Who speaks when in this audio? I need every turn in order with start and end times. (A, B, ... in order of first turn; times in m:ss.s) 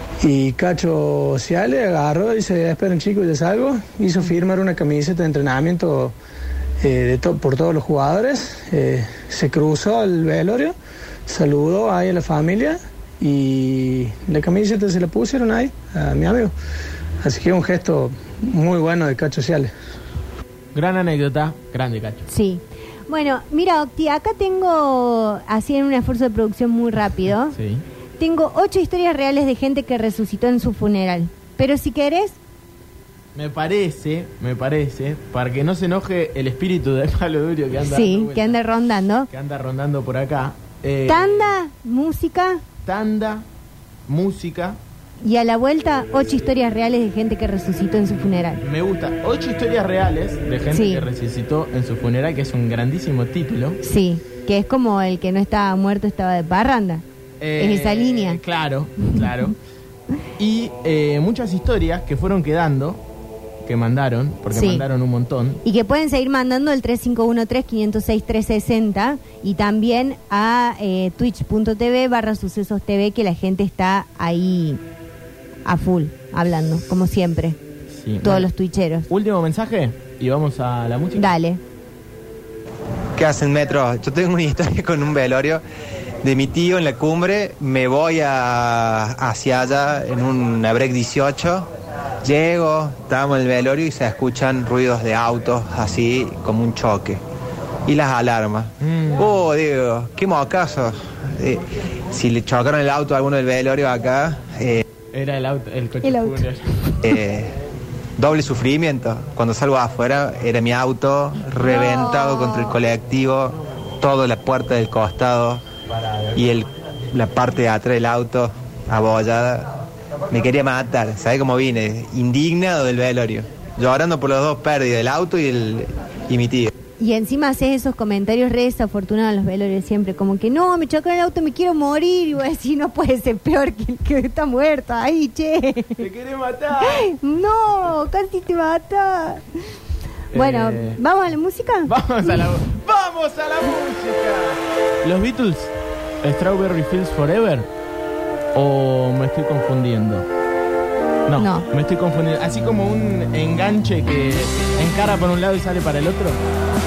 0:00.2-0:06.1 A
0:06.8-0:10.7 A
0:11.3-0:16.5 A
0:17.2-0:19.7 A
0:20.7-0:22.2 B
0:22.3-0:27.6 C
0:27.5-0:27.8 B
0:28.2-0:32.4 C
0:33.3-0:38.6 B
0:37.8-0:39.3 C
0:39.3-0:41.5 B
0:41.0-0:42.6 C
0:42.8-0:43.4 B
0:44.1-0:44.8 B
0:45.2-0:48.6 C
0:48.6-0:53.8 B
0:50.7-0:51.0 C
0:53.8-0:57.0 C
0:57.4-0:59.5 B
0:57.6-0:58.4 C
1:00.4-1:03.0 B
1:03.6-1:05.6 B
1:04.5-1:04.8 C
1:05.6-1:14.8 C
1:15.6-1:17.6 C
1:17.9-1:18.5 B
1:18.2-1:19.1 C
1:19.1-1:21.3 B
1:21.2-1:21.6 C
1:23.2-1:25.6 D
1:26.2-1:31.7 D
1:32.2-1:37.2 D
1:37.8-1:44.8 D
1:38.8-1:39.3 B
1:45.1-1:46.6 B
1:46.0-1:47.0 C
1:47.0-1:47.6 D
1:48.2-1:55.6 D
1:51.6-1:52.8 C
1:56.3-1:59.7 D
2:00.3-2:06.7 D
2:07.0-2:16.1 C
2:16.0-2:17.1 B
2:16.8-2:19.4 C
2:20.3-2:21.0 B
2:20.3-2:22.5 C
2:21.8-2:27.7 B
2:28.5-2:30.3 B
2:31.3-2:36.4 B
2:31.4-2:31.6 C